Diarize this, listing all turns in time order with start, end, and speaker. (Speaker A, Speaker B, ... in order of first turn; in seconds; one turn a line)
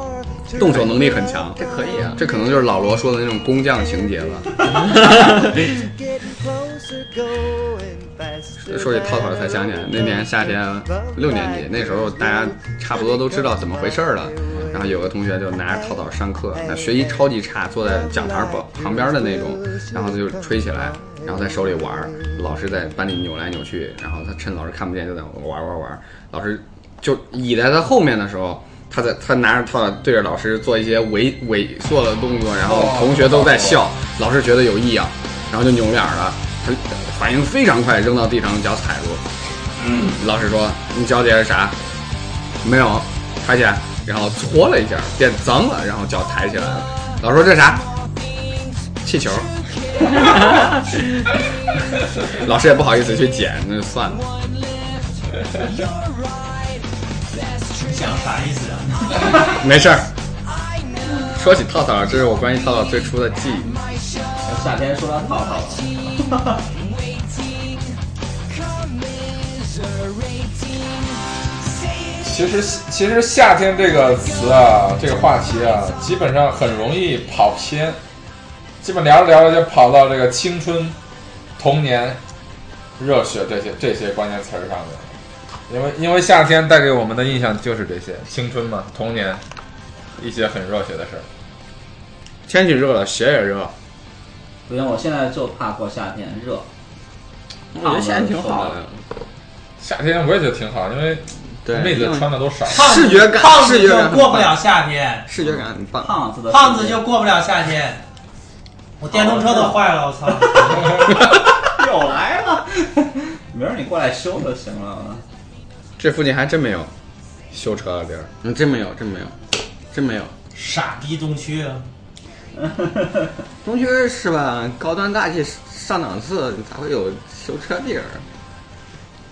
Speaker A: 0.6-1.6
Speaker B: 0.6-0.9
Speaker B: 1.6-2.2
Speaker A: 2.2-4.6
Speaker A: 8.6-39.2
Speaker C: 32.6-33.9
Speaker A: 40.1-41.8
Speaker A: 42.6-47.8
Speaker A: 49.0-49.5
Speaker A: 52.2-54.2
Speaker D: 57.7-59.6
Speaker A: 59.5-60.1
Speaker A: 61.3-63.8
Speaker E: 64.4-66.6
Speaker C: 72.2-78.0
Speaker C: 78.8-81.0
Speaker C: 81.6-82.2
Speaker C: 83.0-85.2
Speaker C: 85.7-89.4
Speaker C: 90.2-91.3
Speaker A: 92.5-93.7
Speaker E: 94.7-96.7
Speaker B: 97.7-99.1
Speaker E: 97.8-98.8
Speaker C: 99.8-102.9
Speaker B: 101.7-104.6
Speaker D: 102.7-105.3
Speaker B: 105.3-106.1
Speaker E: 106.0-107.0
Speaker D: 106.5-108.0
Speaker D: 109.0-111.1
Speaker E: 109.1-109.8
Speaker E: 111.6-115.2
Speaker A: 116.0-116.9
Speaker A: 117.5-118.3
Speaker B: 118.4-119.4
Speaker B: 119.9-120.3
Speaker D: 120.5-121.8
Speaker E: 122.5-123.3
Speaker B: 123.6-128.2